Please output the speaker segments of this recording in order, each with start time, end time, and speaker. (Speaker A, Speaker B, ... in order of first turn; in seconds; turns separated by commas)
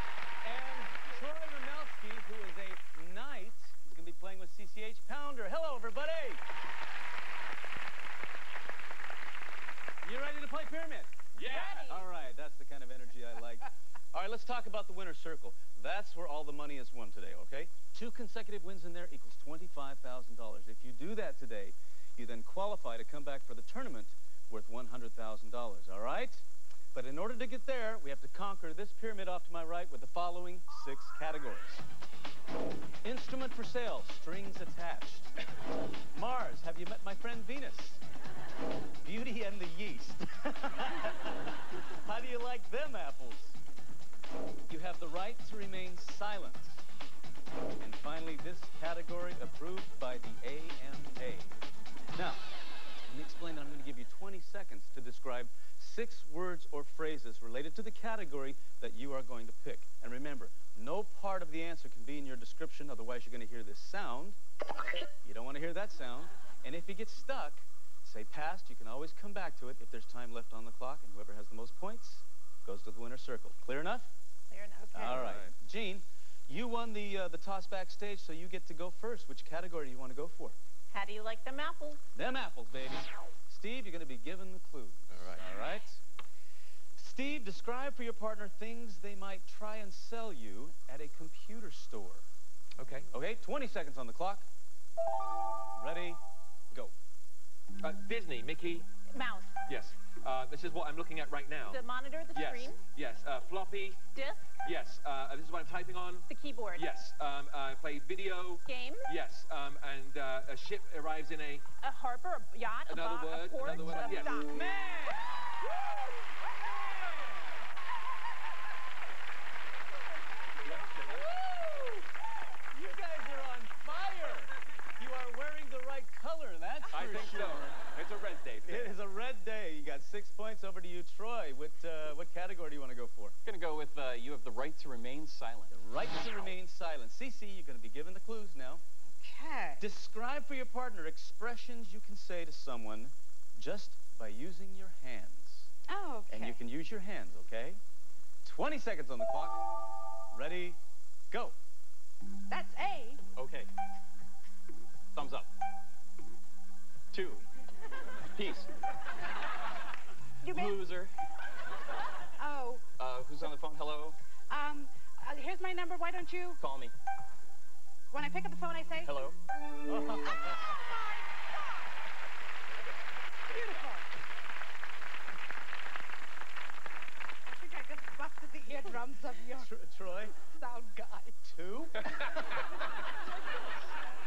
Speaker A: 0.4-6.4, Speaker A: 10.0-31.8, Speaker B: 11.3-12.1, Speaker C: 11.4-11.7, Speaker A: 33.0-35.3, Speaker A: 36.1-38.0, Speaker A: 39.0-43.6, Speaker A: 44.7-46.8, Speaker A: 47.8-51.5, Speaker A: 52.2-52.4, Speaker A: 53.1-64.4, Speaker A: 65.2-74.1, Speaker B: 74.5-75.3, Speaker A: 74.9-80.6, Speaker C: 75.0-75.5, Speaker B: 80.9-82.0, Speaker A: 82.1-86.0, Speaker C: 85.1-85.4, Speaker A: 87.0-92.2, Speaker C: 92.8-93.1, Speaker A: 93.1-94.5, Speaker A: 95.8-96.2, Speaker C: 97.8-98.9, Speaker B: 99.1-99.6, Speaker C: 99.7-111.7, Speaker B: 101.7-102.8, Speaker B: 104.1-104.5, Speaker B: 106.3-106.9, Speaker B: 108.6-109.1, Speaker B: 111.8-114.5, Speaker C: 112.9-114.5, Speaker A: 114.5-115.6, Speaker A: 116.5-117.7, Speaker C: 120.6-121.1, Speaker A: 120.9-122.0, Speaker A: 122.7-127.8, Speaker C: 126.9-129.0, Speaker A: 128.7-133.4, Speaker D: 133.4-135.8, Speaker A: 135.7-138.8, Speaker E: 139.2-139.8, Speaker A: 139.8-145.7, Speaker E: 145.9-146.6, Speaker A: 146.3-147.8, Speaker A: 148.4-149.7, Speaker A: 150.3-150.8, Speaker E: 152.5-153.2, Speaker D: 153.3-153.7, Speaker D: 155.1-155.5, Speaker D: 157.1-157.4, Speaker D: 158.3-158.7, Speaker B: 160.4-160.8, Speaker D: 160.5-161.1, Speaker E: 162.4-162.8, Speaker D: 163.0-164.2, Speaker E: 164.5-166.6, Speaker D: 166.6-166.9, Speaker E: 168.1-169.2, Speaker D: 169.0-169.4, Speaker A: 169.9-170.8, Speaker E: 170.2-171.5, Speaker E: 173.5-174.1, Speaker E: 177.5-179.7, Speaker A: 179.6-180.3, Speaker E: 180.3-181.6, Speaker A: 181.6-182.1